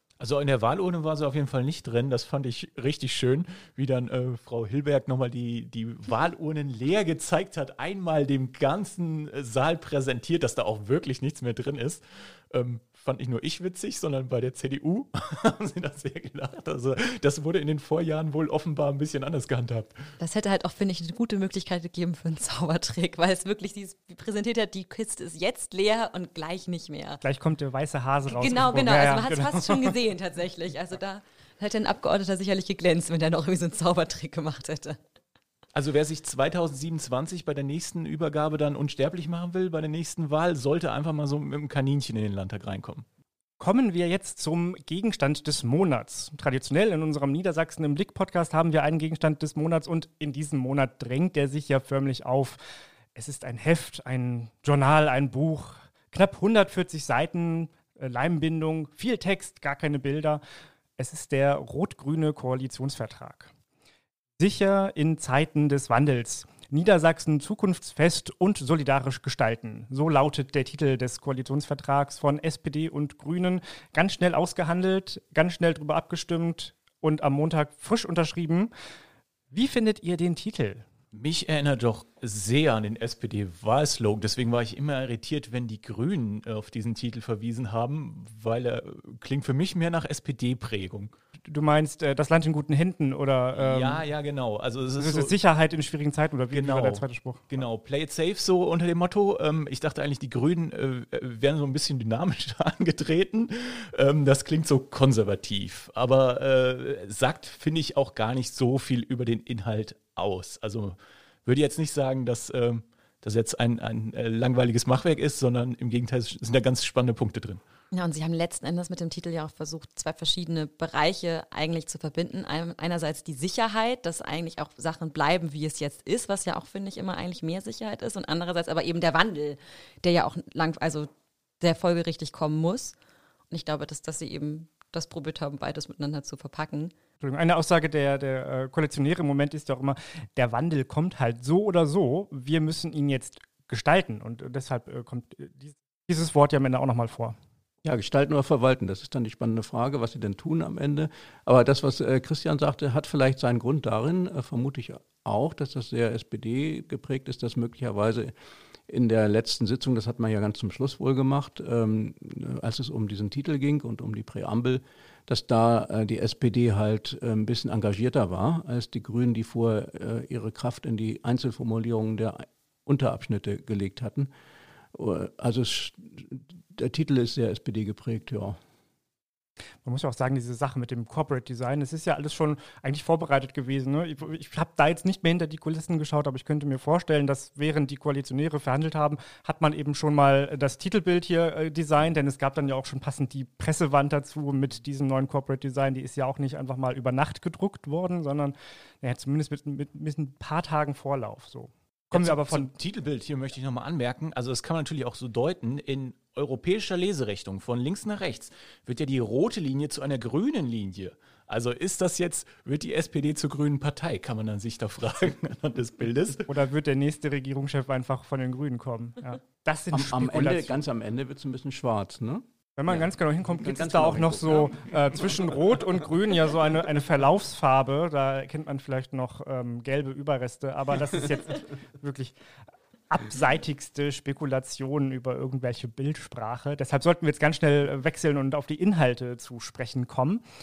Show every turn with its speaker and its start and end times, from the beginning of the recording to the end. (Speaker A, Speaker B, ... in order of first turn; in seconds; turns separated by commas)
Speaker A: 0.2-20.0, Speaker B: 20.2-27.2, Speaker C: 27.2-30.0, Speaker B: 28.3-35.0, Speaker A: 35.7-43.0, Speaker C: 43.6-52.6, Speaker C: 53.1-60.4, Speaker C: 61.0-63.5, Speaker C: 64.4-78.7, Speaker C: 79.5-80.8, Speaker A: 81.1-91.1, Speaker C: 91.5-94.0, Speaker A: 93.5-95.4, Speaker C: 95.0-97.5, Speaker A: 96.5-117.6, Speaker B: 117.9-131.1, Speaker B: 131.6-132.9, Speaker B: 133.5-136.9, Speaker C: 137.2-147.4, Speaker D: 147.8-158.3, Speaker D: 158.9-174.3, Speaker D: 174.9-178.6, Speaker C: 179.8-202.7, Speaker A: 202.1-216.5, Speaker C: 216.5-220.8, Speaker D: 219.9-225.2, Speaker C: 222.8-232.3, Speaker C: 233.1-240.4